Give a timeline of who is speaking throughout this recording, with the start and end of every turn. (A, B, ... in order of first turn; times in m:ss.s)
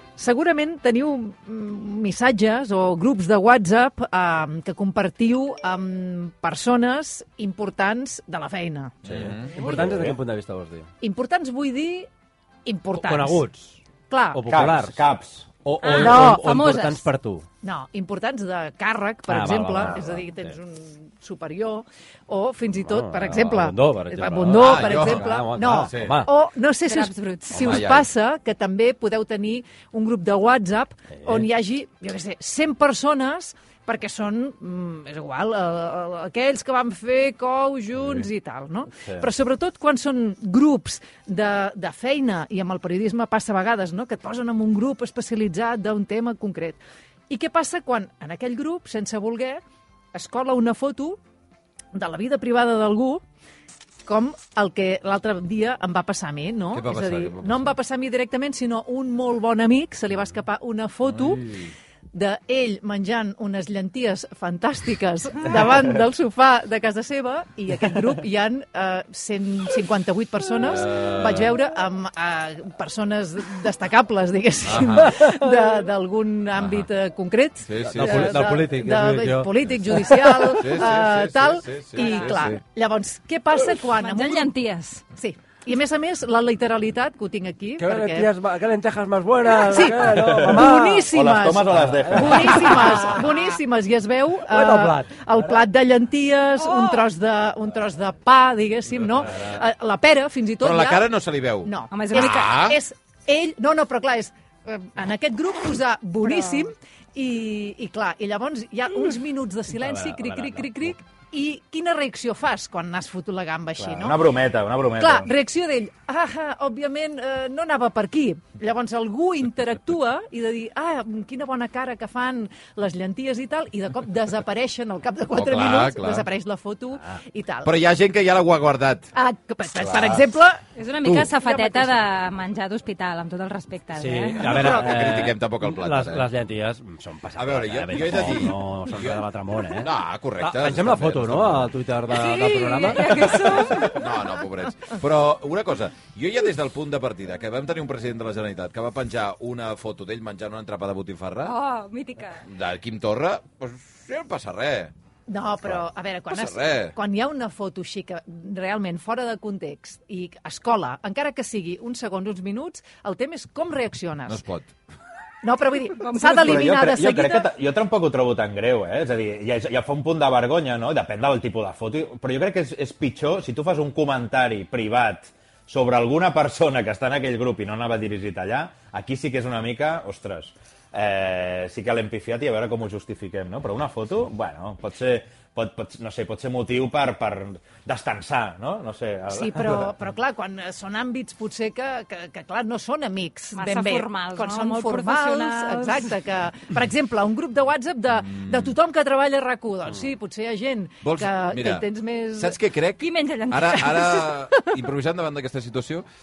0:00.2-0:09.0 A
0:09.1-0:09.5 B
0:09.1-0:10.9 C
0:09.6-0:09.9 A
0:09.7-0:10.2 D
0:11.0-0:12.1 A
0:12.6-0:13.4 A
0:13.0-0:13.8 C
0:14.1-0:14.4 A
0:14.3-0:15.0 C
0:14.5-0:15.5 D
0:15.6-0:17.5 C
0:15.8-0:17.1 E
0:15.9-0:16.4 A
0:17.6-0:49.6 A
0:19.3-0:20.6 C
0:22.8-0:26.3 C
0:24.5-0:26.2 B
0:26.8-0:27.7 E
0:27.5-0:28.1 B
0:31.1-0:31.5 C
0:39.0-0:39.3 D
0:50.1-0:51.2 A
0:51.9-0:53.2 A
0:54.1-1:01.6 A
0:56.7-0:57.6 B
1:02.1-1:24.5 A
1:10.6-1:11.5 B
1:14.6-1:15.2 B
1:15.1-1:15.6 C
1:16.6-1:16.9 B
1:17.6-1:18.5 B
1:17.8-1:20.4 C
1:20.5-1:22.6 B
1:22.0-1:22.3 E
1:24.0-1:25.0 E
1:25.2-1:28.3 A
1:27.8-1:31.1 C
1:29.5-1:54.2 A
1:30.1-1:32.8 D
1:31.7-1:33.1 C
1:34.5-1:35.6 C
1:36.6-1:37.1 E
1:40.6-1:42.8 B
1:41.9-1:42.5 E
1:46.2-1:46.6 E
1:49.7-1:50.9 C
1:53.8-1:55.3 D
1:55.0-2:07.7 A
2:05.3-2:06.3 B
2:07.6-2:09.1 B
2:09.1-2:12.0 A
2:09.8-2:10.2 B
2:10.8-2:14.5 E
2:14.0-2:23.7 C
2:14.4-2:14.8 A
2:14.4-2:16.3 B
2:17.4-2:19.2 B
2:19.8-2:21.7 B
2:22.1-2:24.0 E
2:23.5-2:31.6 B
2:31.4-2:32.4 E
2:32.5-2:34.9 B
2:35.3-2:44.4 A
2:35.6-2:37.0 B
2:44.3-2:44.7 B
2:45.4-2:47.5 A
2:45.9-2:46.7 E
2:46.2-3:10.0 D
3:09.3-3:22.6 A
3:13.5-3:16.2 E
3:18.3-3:18.7 B
3:21.0-3:26.1 B
3:23.0-3:24.3 E